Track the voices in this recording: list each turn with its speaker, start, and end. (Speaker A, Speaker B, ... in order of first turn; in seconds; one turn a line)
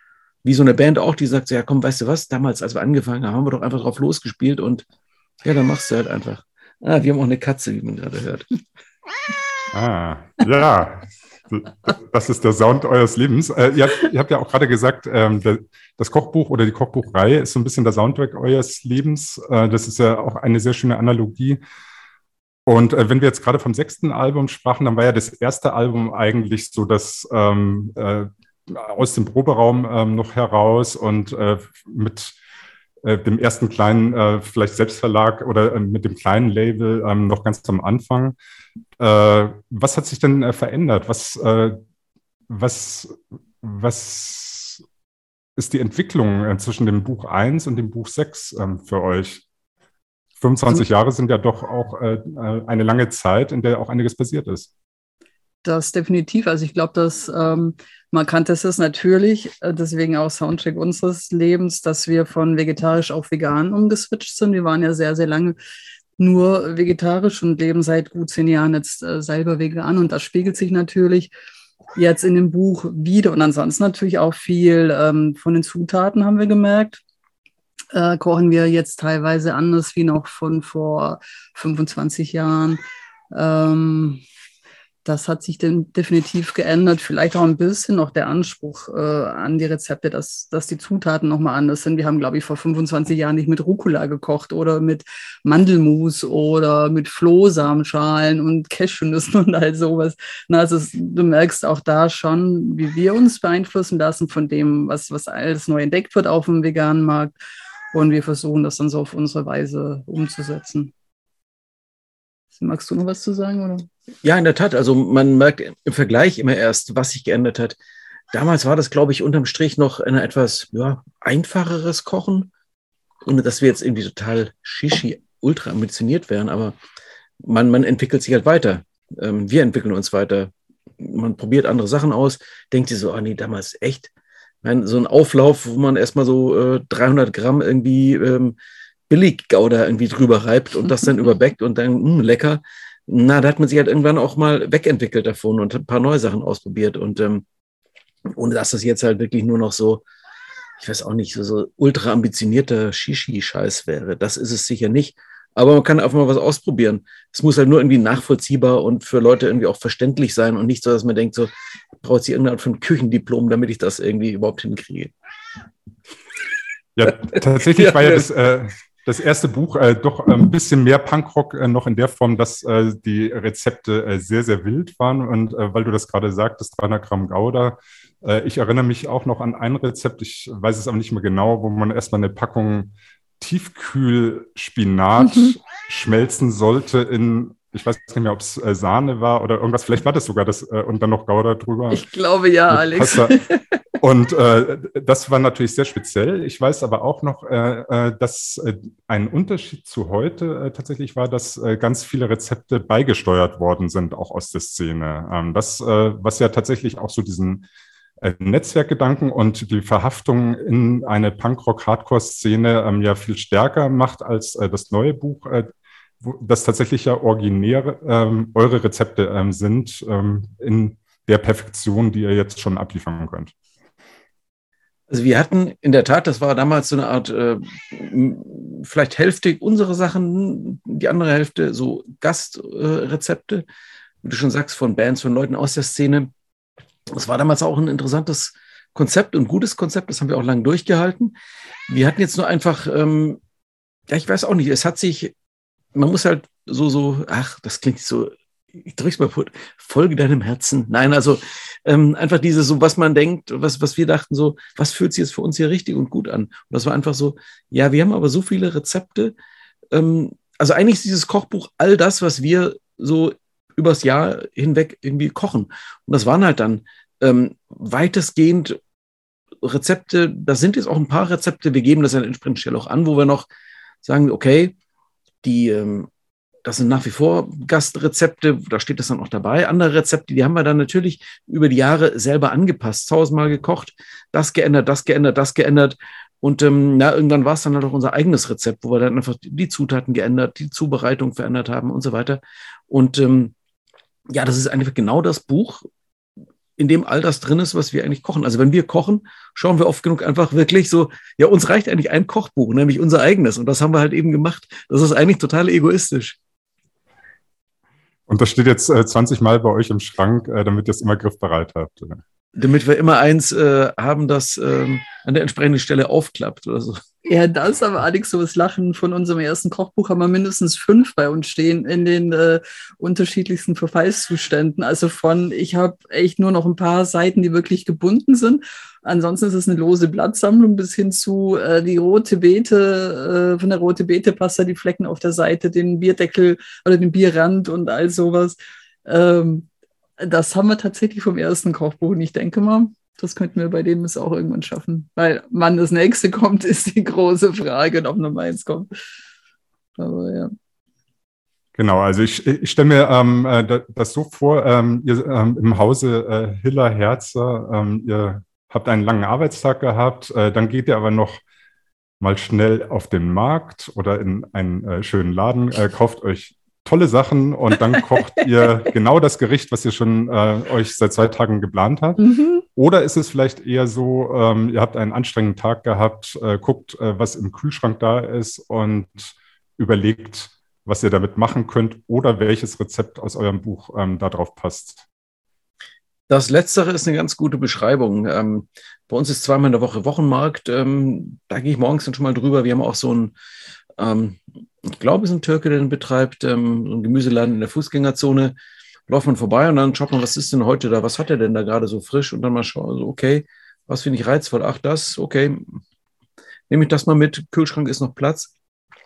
Speaker A: 0.4-4.8
Speaker A: 5.4-8.6
Speaker B: 9.7-21.6
Speaker B: 22.7-32.4
Speaker B: 33.0-38.4
Speaker B: 39.0-41.8
Speaker B: 42.5-44.8
Speaker B: 45.6-49.4
Speaker B: 50.4-54.7
Speaker C: 55.6-65.6
Speaker C: 66.2-71.3
Speaker C: 72.0-77.0
Speaker C: 77.9-82.8
Speaker C: 83.3-84.2
Speaker C: 85.0-107.3
Speaker C: 107.9-110.9
Speaker C: 112.5-113.9
Speaker A: 114.2-117.8
Speaker A: 118.3-122.5
Speaker A: 123.2-126.8
Speaker A: 127.4-134.1
Speaker A: 134.6-138.6
Speaker A: 139.1-147.4
Speaker A: 148.2-150.0
Speaker A: 150.8-161.5
Speaker A: 162.0-165.1
Speaker B: 167.0-192.1
Speaker A: 167.7-168.2
Speaker C: 191.9-193.6
Speaker B: 192.7-193.4
Speaker B: 194.0-207.6
Speaker B: 208.2-215.7
Speaker B: 216.2-223.5
Speaker A: 225.1-233.7
Speaker A: 234.2-236.3
Speaker A: 237.1-241.3
Speaker A: 241.9-243.4
Speaker A: 244.1-245.3
Speaker A: 245.9-259.4
Speaker A: 259.9-268.8
Speaker A: 269.6-273.5
Speaker A: 274.0-274.7
Speaker A: 275.4-276.1
Speaker A: 276.6-293.5
Speaker A: 294.3-295.9
Speaker A: 296.8-306.4
Speaker B: 308.3-312.2
Speaker A: 312.6-317.0
Speaker C: 317.2-339.7
Speaker C: 340.2-348.9
Speaker C: 350.0-350.5
Speaker B: 351.8-361.4
Speaker B: 362.2-385.0
Speaker C: 372.2-372.6
Speaker A: 386.3-393.3
Speaker A: 394.0-398.5
Speaker A: 399.1-405.8
Speaker A: 406.7-408.5